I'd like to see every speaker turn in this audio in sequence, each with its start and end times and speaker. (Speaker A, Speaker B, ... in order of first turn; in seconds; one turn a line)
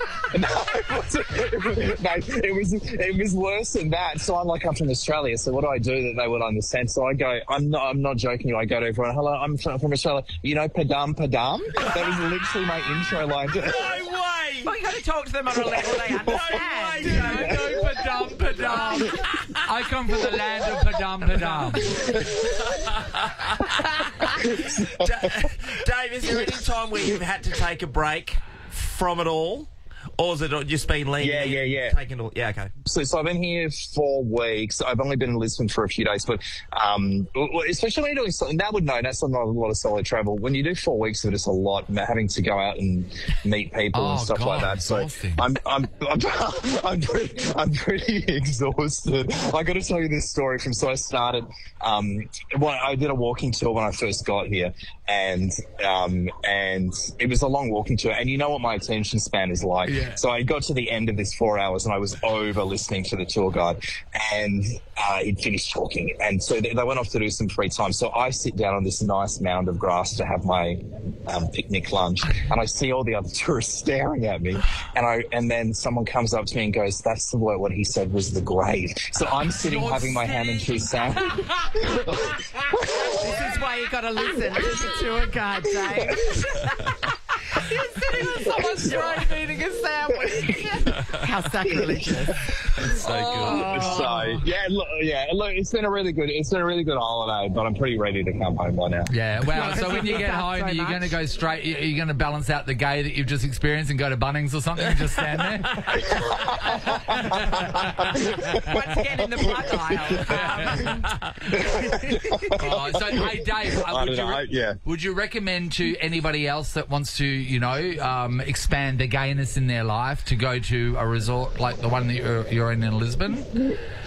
Speaker A: 0.3-14.0
Speaker B: 13.7-14.7
Speaker C: 14.6-17.7
Speaker B: 16.2-17.6
Speaker D: 17.1-22.0
Speaker C: 18.6-19.2
Speaker C: 21.3-21.8
Speaker A: 24.6-25.3
Speaker B: 24.8-32.7
Speaker A: 31.2-32.0
Speaker A: 32.9-82.3
Speaker D: 43.9-45.5
Speaker D: 59.9-60.2
Speaker D: 79.7-80.7
Speaker C: 79.8-80.6
Speaker C: 83.1-86.9
Speaker C: 87.5-92.4
Speaker D: 88.2-89.6
Speaker A: 88.5-89.1
Speaker A: 91.8-92.0
Speaker A: 92.8-99.1
Speaker D: 93.0-94.5
Speaker B: 93.0-93.6
Speaker C: 93.4-94.3
Speaker D: 99.1-107.9
Speaker C: 99.5-101.2
Speaker A: 105.9-108.6
Speaker C: 108.6-111.1
Speaker A: 109.4-110.0
Speaker D: 110.3-111.0
Speaker A: 111.6-114.8
Speaker D: 112.5-123.5